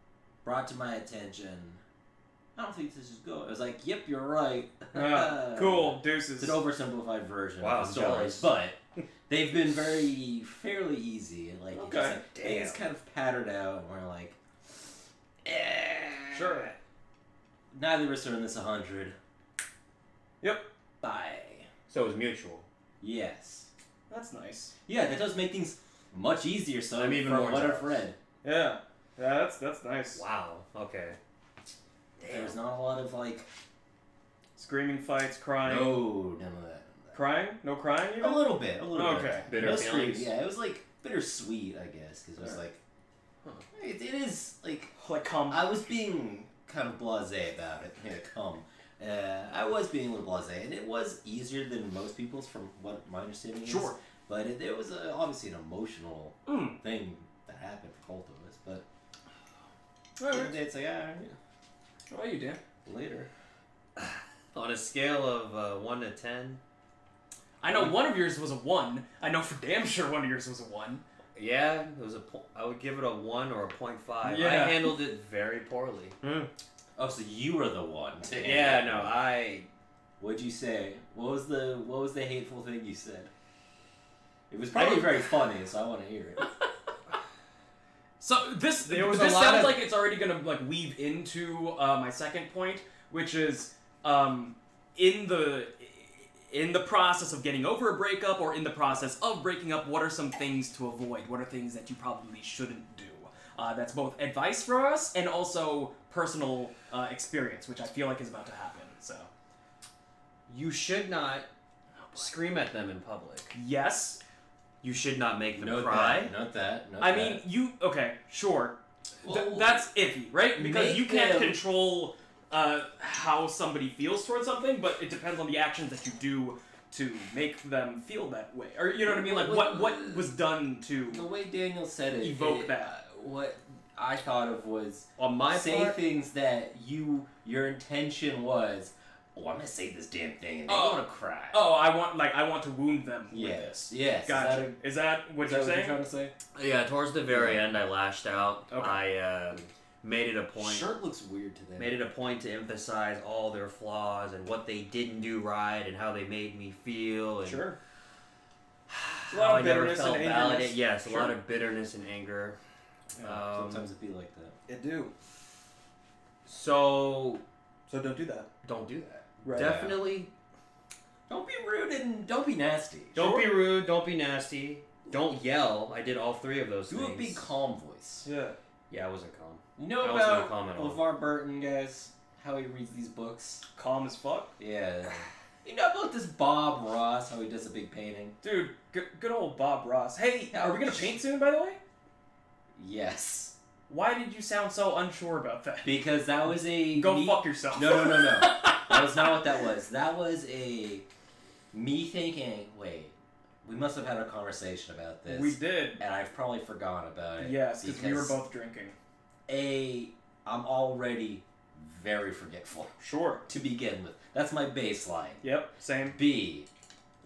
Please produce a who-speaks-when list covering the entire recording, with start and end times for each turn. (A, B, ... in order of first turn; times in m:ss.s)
0:00.4-0:01.8 A
0:02.5-0:14.4 A
0:04.9-0:06.6 B
0:07.6-0:08.5 C
0:11.7-0:12.2 B
0:12.3-0:12.8 C
0:15.4-0:16.7 A
0:16.3-0:16.7 B
0:17.7-0:19.2 A
0:20.4-0:20.6 B
0:21.0-0:21.7 A
0:21.9-0:22.6 C
0:23.0-0:23.7 A
0:24.1-0:24.7 B
0:24.9-0:28.2 A
0:27.0-0:28.0 C
0:28.4-0:30.2 B
0:30.1-0:31.2 C
0:32.2-0:32.5 C
0:32.2-0:33.5 A
0:34.6-0:36.1 B
0:35.6-0:37.1 A
0:37.1-0:39.4 B
0:38.2-0:42.8 A
0:39.5-0:40.3 C
0:43.7-0:44.9 A
0:45.0-0:45.7 B
0:45.5-0:58.8 A
0:53.6-0:54.0 B
0:56.4-0:56.8 B
1:00.2-1:00.6 B
1:00.3-1:01.4 A
1:02.1-1:02.6 B
1:02.8-1:03.3 A
1:04.0-1:06.6 C
1:07.6-1:11.0 B
1:11.4-1:16.5 C
1:14.2-1:15.0 B
1:17.0-1:19.2 A
1:18.4-1:19.7 C
1:20.2-1:23.3 A
1:24.5-1:26.4 A
1:24.7-1:25.2 C
1:28.2-1:49.3 B
1:28.8-1:29.8 C
1:50.5-1:51.5 C
1:52.1-1:53.5 C
1:53.5-1:54.2 B
1:54.8-1:56.3 C
1:55.6-1:57.4 A
1:57.0-2:11.3 B
1:59.2-1:59.8 A
2:00.6-2:01.6 A
2:09.0-2:10.3 A
2:11.1-2:21.6 A
2:12.2-2:13.0 B
2:15.2-2:16.0 C
2:20.7-2:26.0 B
2:23.3-2:24.7 A
2:25.4-2:26.3 A
2:26.5-2:30.9 C
2:27.3-2:27.6 A
2:28.7-2:29.0 B
2:30.6-2:32.0 A
2:31.8-2:37.7 C
2:37.4-2:37.8 B
2:38.9-2:42.6 C
2:39.3-2:41.4 B
2:43.2-2:43.7 B
2:43.2-2:43.8 C
2:43.2-2:44.5 A
2:44.7-2:45.1 B
2:46.4-2:47.4 C
2:47.9-2:48.5 B
2:48.6-2:50.3 C
2:49.4-2:49.8 B
2:49.5-2:50.0 A
2:51.3-2:53.2 A
2:53.1-2:57.5 C
2:53.2-2:53.5 B
2:56.9-2:58.3 A
2:58.2-2:58.6 B
2:58.9-3:01.0 C
2:59.8-3:03.6 A
3:03.7-3:04.5 B
3:04.6-3:08.4 A
3:08.4-3:11.8 B
3:10.5-3:11.1 A
3:12.8-3:13.5 A
3:13.9-3:16.0 B
3:15.8-3:21.0 A
3:16.9-3:19.4 B
3:21.7-3:28.4 A
3:25.3-3:26.0 B
3:27.4-3:29.0 B
3:29.5-3:32.9 A
3:33.0-3:33.4 B
3:33.5-3:35.4 A
3:35.4-3:36.2 B
3:36.0-3:36.7 A